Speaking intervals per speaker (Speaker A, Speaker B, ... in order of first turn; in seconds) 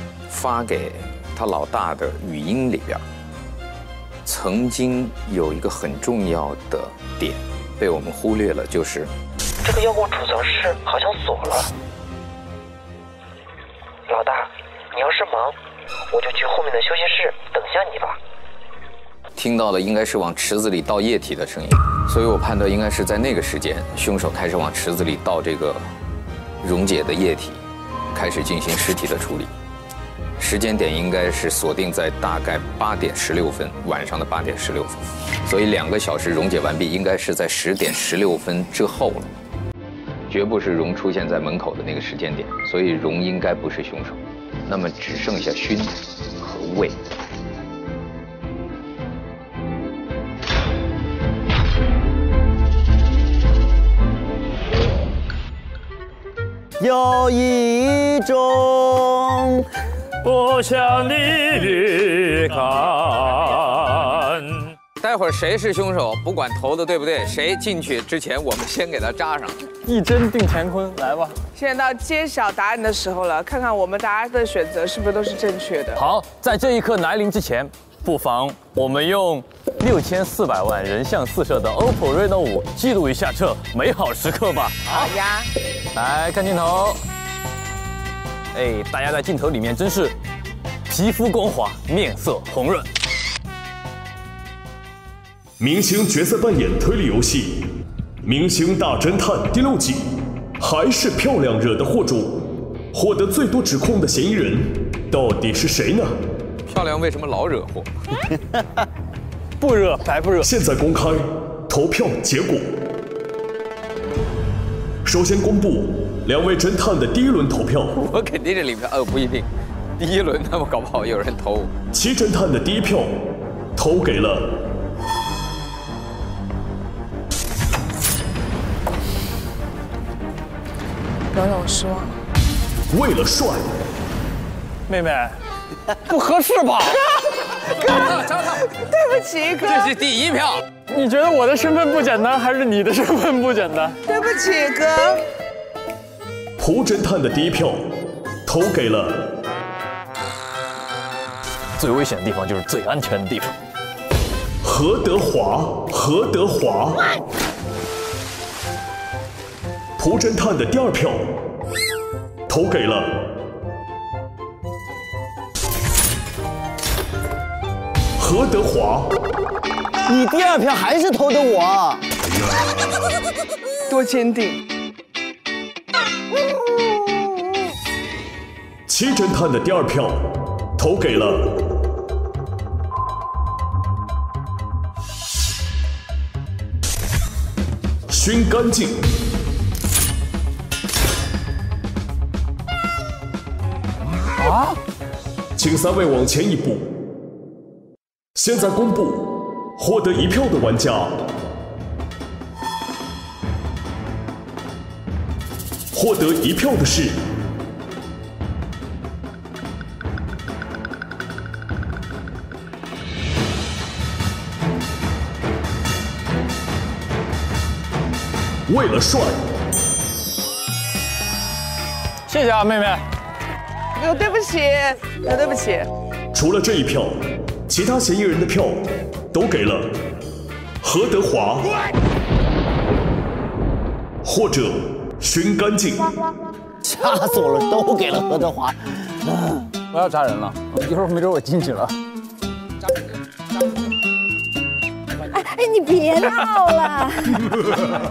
Speaker A: 0.3-3.0, 4.2-9.1, 19.4-25.8, 26.6-27.6, 28.1-29.5, 30.4-39.3, 40.3-47.0, 65.0-69.6, 106.7-108.1, 118.0-119.5, 120.0-121.7, 137.9-138.3, 139.6-140.6
Speaker B: 9.6-11.7, 14.1-15.5, 16.1-18.2
Speaker C: 56.8-59.6, 108.3-108.8, 170.0-172.1, 236.8-239.1
Speaker D: 60.2-64.7, 76.0-85.1, 85.9-87.0, 88.5-90.1, 90.9-92.9, 151.8-153.5
Speaker E: 69.8-71.4, 109.6-110.5, 134.9-135.4, 136.1-137.1, 140.9-144.0, 222.3-223.1
Speaker F: 71.5-76.0, 84.9-85.5, 131.3-132.2, 137.7-139.9, 144.1-145.2, 173.9-174.6, 224.0-225.9
Speaker G: 95.6-97.6, 98.2-100.0, 100.6-102.4, 102.9-106.1, 110.4-112.7, 115.0-118.0, 121.9-123.1, 123.8-124.5, 132.9-133.7, 146.6-147.8, 148.4-149.2, 154.6-157.1, 160.0-161.3, 162.5-163.2, 168.2-169.1, 178.9-180.2, 180.8-181.5, 188.1-189.0, 195.6-196.9, 198.3-201.2, 205.9-207.2, 218.7-219.4, 226.3-228.8, 229.3-229.9, 230.8-231.8, 234.2-236.1
Speaker H: 194.4-194.8, 239.9-241.9
Speaker I: 245.3-247.5